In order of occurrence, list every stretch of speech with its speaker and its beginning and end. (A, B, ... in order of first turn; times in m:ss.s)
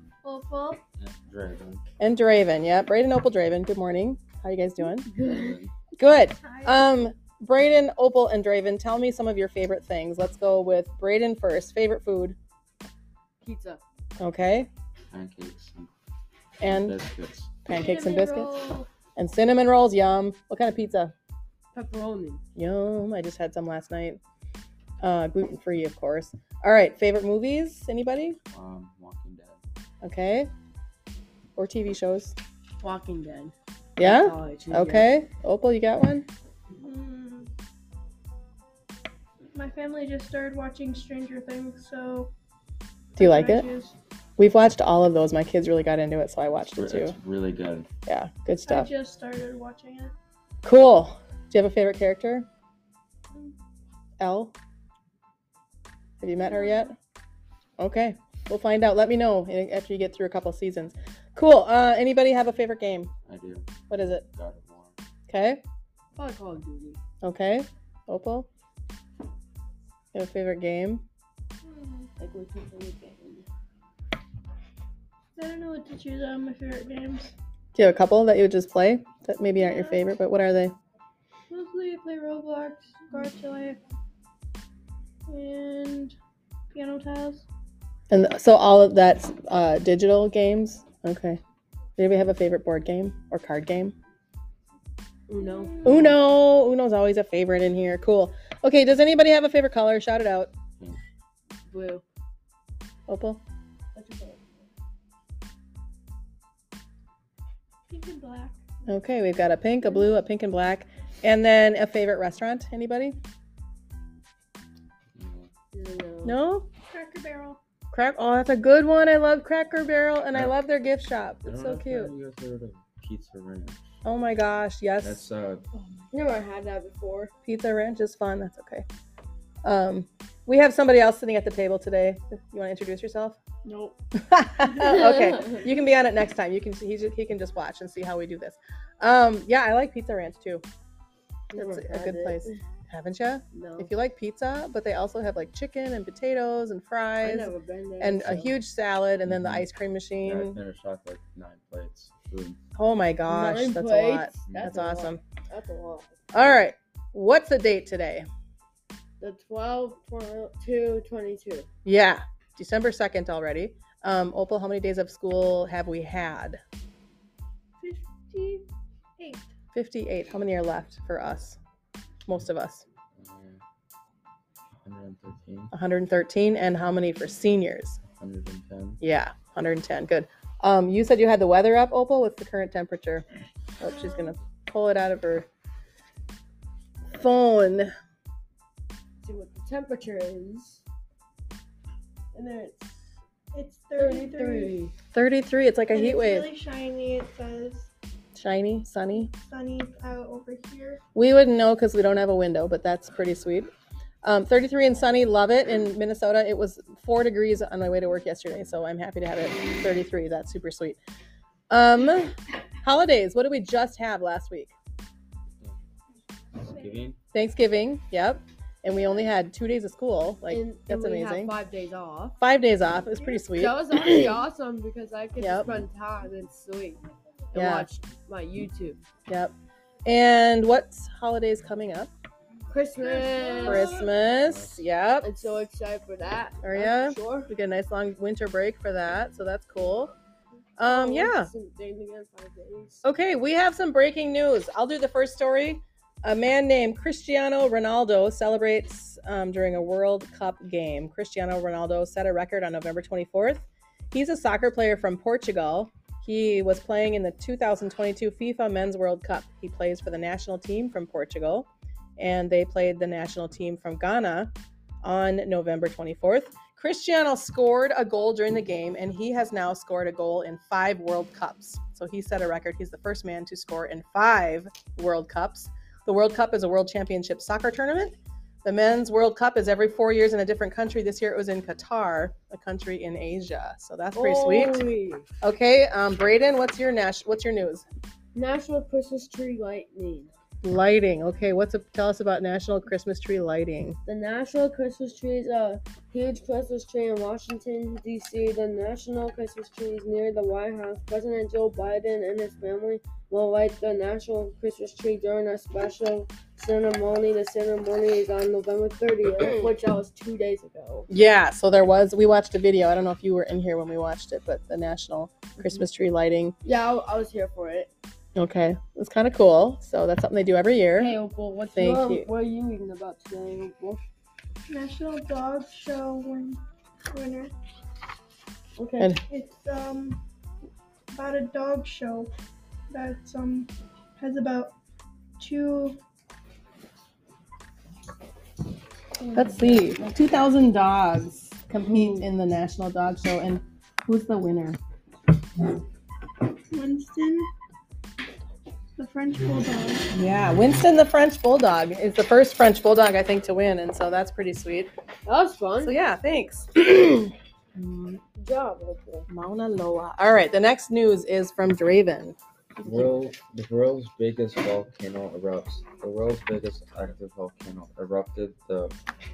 0:00.2-0:00.8 A
0:01.0-0:01.8 B
0:02.0-0:05.1 C
0:05.0-0:05.6 D
0:05.2-0:05.7 B
0:06.0-0:12.4 C
0:06.4-0:06.9 A
0:13.4-0:13.8 D
0:14.2-0:14.7 C
0:15.1-0:15.9 B
0:16.6-0:17.0 C
0:16.6-0:17.7 B
0:17.7-0:18.9 A
0:17.7-0:18.6 C
0:19.2-0:21.1 C
0:21.7-0:22.4 D
0:22.6-0:24.2 C
0:25.0-0:28.4 C
0:28.5-0:29.6 B
0:30.0-0:30.5 C
0:31.6-0:32.4 C
0:32.8-0:35.1 D
0:34.0-0:36.3 C
0:36.8-0:37.5 A
0:39.5-0:42.3 A
0:43.2-0:43.7 C
0:43.2-0:44.0 A
0:44.4-0:47.2 C
0:46.8-0:47.9 B
0:48.0-0:48.9 C
0:48.7-0:50.1 A
0:50.6-0:52.5 C
0:54.2-0:54.5 C
0:56.2-0:56.9 C
0:56.4-0:56.9 A
0:57.8-1:03.1 C
1:03.2-1:04.9 B
1:03.9-1:04.3 C
1:05.3-1:05.6 C
1:06.2-1:07.0 D
1:07.2-1:08.5 C
1:10.1-1:11.0 C
1:11.6-1:12.1 A
1:12.2-1:13.4 D
1:15.4-1:17.3 A
1:17.7-1:20.7 C
1:19.6-1:20.1 A
1:21.5-1:23.8 A
1:25.3-1:26.2 A
1:26.7-1:27.5 A
1:28.1-1:31.4 C
1:32.0-1:33.9 C
1:35.3-1:36.1 D
1:35.4-1:36.0 A
1:35.8-1:40.5 C
1:41.7-1:42.0 D
1:43.1-1:43.4 C
1:43.9-1:44.7 D
1:47.9-1:48.6 A
1:48.9-1:53.2 C
1:55.2-1:55.5 B
1:55.7-1:56.4 D
1:56.2-1:56.7 C
1:56.8-1:57.6 A
1:57.9-2:02.1 C
2:01.4-2:04.0 B
2:04.0-2:05.2 C
2:05.0-2:05.6 B
2:06.1-2:07.3 D
2:07.4-2:08.8 C
2:09.6-2:13.4 C
2:13.6-2:13.9 A
2:14.2-2:20.6 C
2:14.7-2:15.6 D
2:21.5-2:22.6 D
2:21.5-2:30.6 C
2:23.5-2:23.9 D
2:27.2-2:28.5 D
2:29.2-2:29.7 B
2:30.2-2:32.6 B
2:32.7-2:35.2 C
2:33.3-2:36.5 D
2:34.4-2:34.9 B
2:36.3-2:38.3 C
2:39.2-2:41.7 D
2:41.8-2:46.6 C
2:47.8-2:48.6 A
2:49.2-2:49.5 A
2:49.7-2:51.6 C
2:52.2-2:52.8 C
2:53.2-2:53.6 B
2:54.8-2:55.7 B
2:55.7-2:58.0 C
2:58.2-2:59.0 B
2:59.0-3:03.2 C
3:03.8-3:05.5 C
3:03.8-3:04.3 A
3:07.1-3:07.9 C
3:09.2-3:10.8 D
3:12.3-3:13.0 D
3:13.5-3:14.8 A
3:14.0-3:14.9 D
3:15.1-3:16.5 C
3:15.9-3:17.9 A
3:18.4-3:19.3 C
3:19.1-3:21.0 A
3:21.2-3:23.7 C
3:24.2-3:31.0 C
3:31.7-3:34.7 C
3:36.6-3:37.2 B
3:37.3-3:41.5 C
3:40.5-3:42.4 D
3:42.4-3:43.8 C
3:43.2-3:44.4 A
3:43.5-3:47.0 D
3:45.4-3:45.8 C
3:47.5-3:49.0 D
3:47.5-3:47.9 C
3:49.3-3:49.5 C
3:50.0-3:52.1 C
3:52.7-3:54.1 D
3:53.0-3:54.1 A
3:53.6-3:55.4 C
3:54.1-3:54.8 B
3:55.2-3:57.5 D
3:56.6-4:00.1 C
4:00.8-4:01.5 C
4:00.8-4:03.0 D
4:03.0-4:44.8 C
4:44.1-4:45.2 D
4:45.4-4:47.8 C
4:48.3-4:50.3 D
4:50.6-4:54.0 C
4:54.0-5:11.1 D
5:11.1-5:16.5 C
5:15.6-5:15.9 D
5:16.6-5:17.9 D
5:18.4-5:21.2 C
5:20.9-5:24.0 D
5:21.8-5:22.3 C
5:24.7-5:26.6 A
5:27.1-5:27.5 A
5:28.8-5:29.2 D
5:29.3-5:30.2 A
5:31.1-5:32.3 A
5:32.9-5:34.7 A
5:35.4-5:36.0 A
5:39.2-5:40.0 A
5:39.3-5:44.8 C
5:46.7-5:47.4 A
5:49.0-5:50.1 A
5:50.1-5:54.9 C
5:55.2-5:56.0 D
5:55.8-5:58.2 C
5:58.4-5:59.3 D
5:59.3-6:02.8 C
6:02.8-6:08.9 B